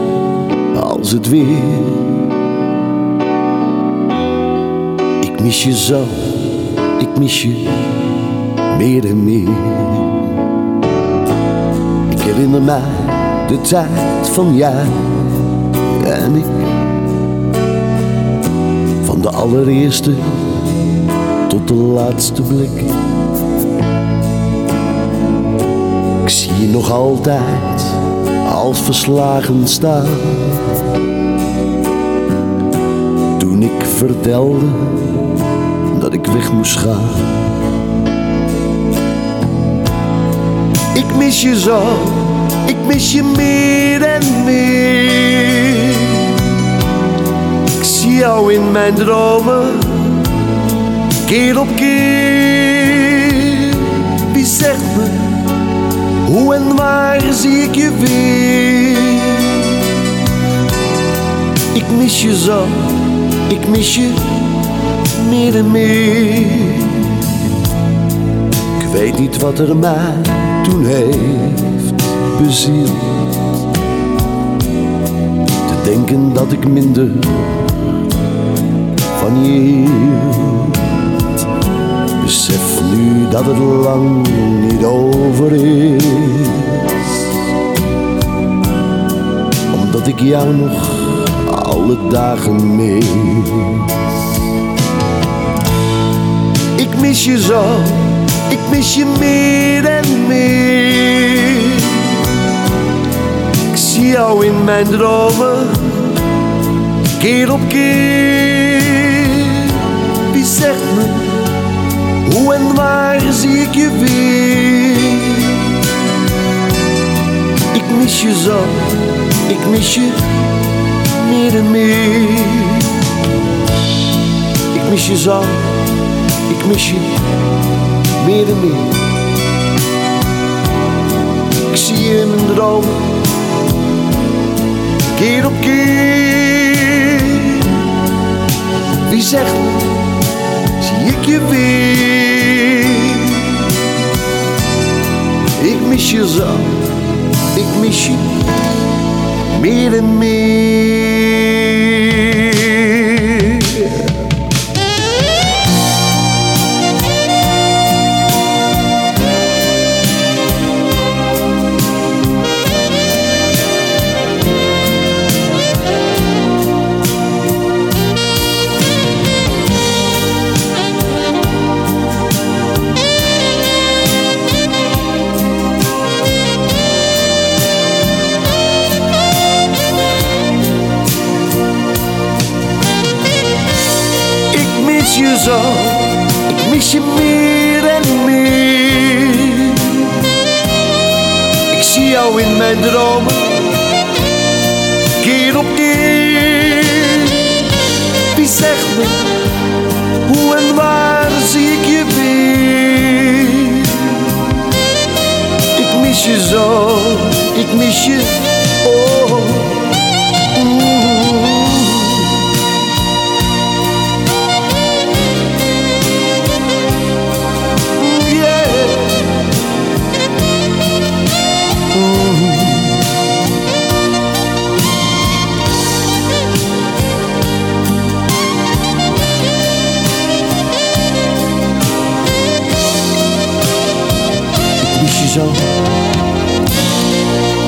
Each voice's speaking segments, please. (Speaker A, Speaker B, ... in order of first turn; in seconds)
Speaker A: 0.7-2.2, 5.2-8.0, 8.7-10.3, 12.1-15.4, 16.0-16.8, 19.0-20.6, 21.5-23.0, 26.2-30.6, 33.4-35.2, 35.9-37.5, 40.9-46.3, 47.8-50.2, 51.2-55.4, 56.2-59.7, 61.7-64.6, 65.1-67.2, 68.8-73.2, 75.7-77.7, 79.2-80.8, 82.2-86.9, 89.7-94.0, 96.8-102.0, 103.7-106.2, 107.2-111.4, 112.2-115.6, 117.7-120.2, 121.0-123.0, 124.7-125.8, 126.5-127.2, 128.2-129.0, 131.6-133.3, 135.2-137.7, 139.1-139.9, 140.8-143.6, 145.6-146.8, 147.5-148.5, 149.5-154.2, 184.5-190.0, 191.7-193.8, 195.2-197.4, 198.3-199.3, 200.3-204.2, 205.8-209.8, 210.5-212.3, 217.9-219.4, 221.9-223.0, 234.8-235.7